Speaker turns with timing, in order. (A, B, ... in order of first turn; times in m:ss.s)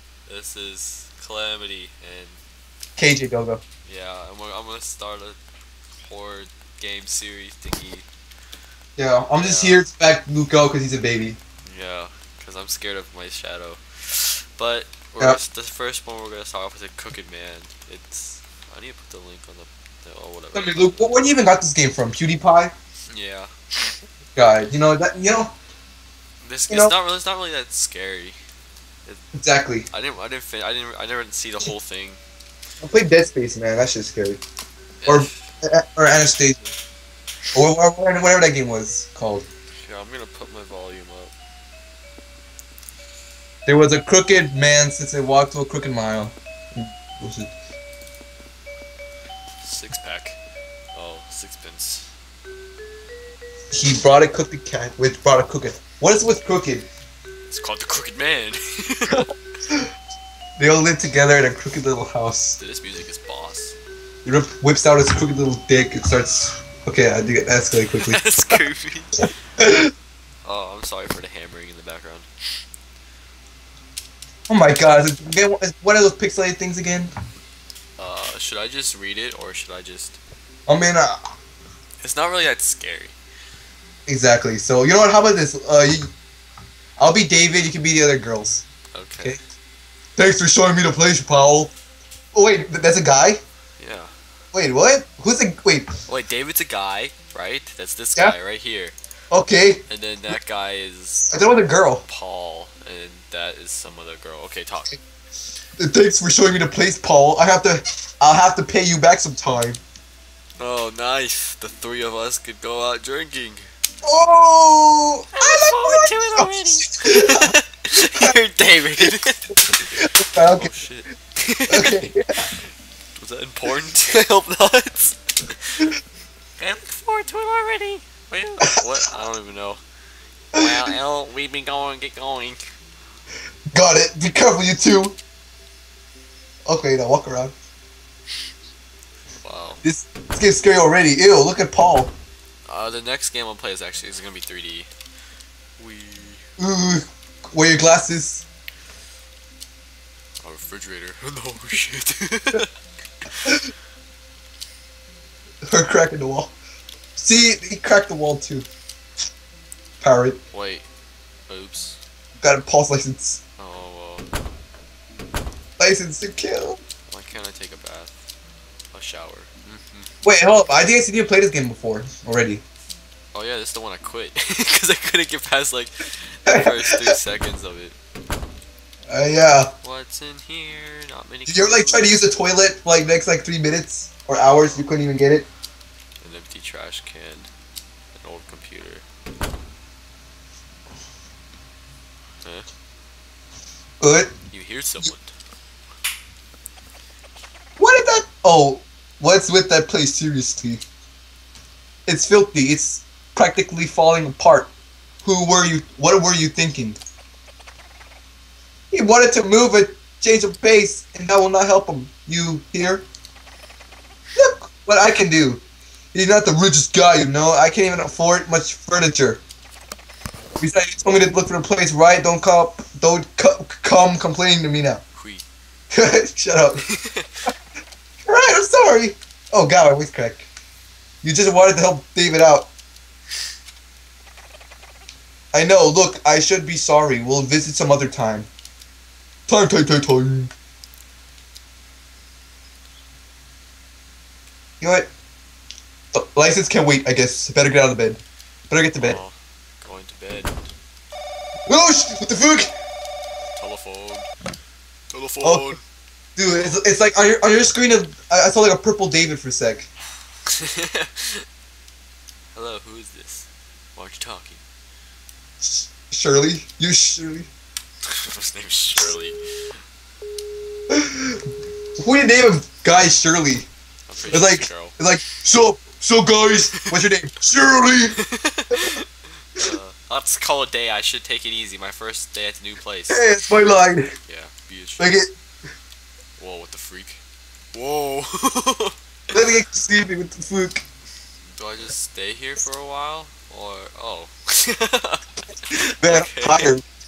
0:00.3-0:02.4 A
0:03.0-0:03.6 B
0:03.9-0:05.4 A
0:05.9-0:08.1 A
0:09.0-0:11.4 B
0:09.3-0:09.9 A
0:11.7-0:21.3 A
0:20.5-0:22.7 B
0:23.1-0:23.5 A
0:24.4-0:25.5 B
0:26.4-0:28.4 A
0:29.4-0:29.9 B
0:29.9-0:32.2 A
0:32.8-0:34.4 B
0:35.0-0:35.4 A
0:35.1-0:36.7 B
0:37.5-0:39.5 B
0:39.8-0:41.3 A
0:43.7-0:47.5 B
0:49.6-0:50.4 A
0:50.9-0:52.1 A
0:53.7-0:56.9 B
0:57.5-0:59.3 A
1:00.6-1:02.6 B
1:02.6-1:03.8 A
1:04.2-1:08.2 B
1:08.0-1:09.3 A
1:09.6-1:09.9 B
1:10.4-1:12.3 A
1:14.5-1:17.1 B
1:18.0-1:20.2 A
1:20.7-1:21.3 B
1:22.0-1:23.2 A
1:24.1-1:26.1 B
1:27.0-1:28.6 B
1:28.9-1:29.4 A
1:30.2-1:31.7 B
1:32.3-1:33.4 B
1:33.8-1:34.1 A
1:34.5-1:35.9 B
1:36.1-1:39.0 A
1:39.3-1:39.8 B
1:39.9-1:41.4 A
1:41.3-1:42.0 B
1:42.0-1:45.0 A
1:45.8-1:49.8 B
1:50.6-1:53.7 A
1:54.0-1:57.5 B
1:55.4-2:05.8 A
1:59.0-2:00.7 B
2:01.7-2:02.4 B
2:06.6-2:09.8 A
2:10.5-2:12.6 A
2:13.7-2:15.2 B
2:16.7-2:17.5 B
2:19.4-2:19.8 A
2:19.8-2:22.1 B
2:22.7-2:24.9 A
2:25.8-2:26.4 A
2:26.6-2:28.4 B
2:30.4-2:32.7 A
2:35.7-2:36.6 B
2:37.2-2:38.7 B
2:40.0-2:40.4 B
2:40.5-2:40.9 A
2:41.5-2:42.0 A
2:42.4-2:43.4 B
2:43.6-2:44.3 A
2:45.8-2:46.8 B
2:47.1-2:48.1 A
2:48.9-2:50.1 A
2:50.2-2:52.6 B
2:53.3-2:58.0 A
2:56.5-2:57.2 B
2:59.1-2:59.7 B
2:59.8-3:02.2 A
3:01.5-3:05.5 B
3:04.4-3:04.9 A
3:06.2-3:07.5 A
3:08.1-3:09.0 A
3:12.4-3:12.7 A
3:14.0-3:14.3 B
3:14.5-3:15.3 A
3:17.8-3:20.8 B
3:22.1-3:24.7 B
3:25.2-3:27.0 B
3:28.9-3:33.1 B
3:34.4-3:35.6 B
3:36.1-3:39.4 B
3:40.6-3:45.0 B
3:45.2-3:45.4 A
3:45.9-3:46.8 B
3:46.9-3:47.4 A
3:48.3-3:50.5 B
3:51.2-3:52.7 B
3:55.5-3:58.5 B
3:59.5-4:00.5 B
4:04.8-4:05.1 B
4:06.1-4:09.2 B
4:09.0-4:10.5 A
4:11.7-4:12.7 B
4:13.6-4:14.3 A
4:15.1-4:15.8 A
4:15.4-4:15.8 B
4:16.4-4:19.9 B
4:20.5-4:21.4 A
4:22.5-4:24.6 A
4:25.6-4:27.5 B
4:28.1-4:29.4 A
4:30.9-4:31.4 B
4:32.0-4:33.7 B
4:34.1-4:35.0 A
4:34.3-4:38.2 B
4:38.2-4:43.4 A
4:38.7-4:39.0 B
4:43.1-4:44.1 B
4:44.2-4:45.2 A
4:45.0-4:45.3 B
4:46.4-4:47.2 A
4:47.7-4:49.0 A
4:49.3-4:50.8 B
4:51.6-4:56.8 A
4:55.7-4:56.9 B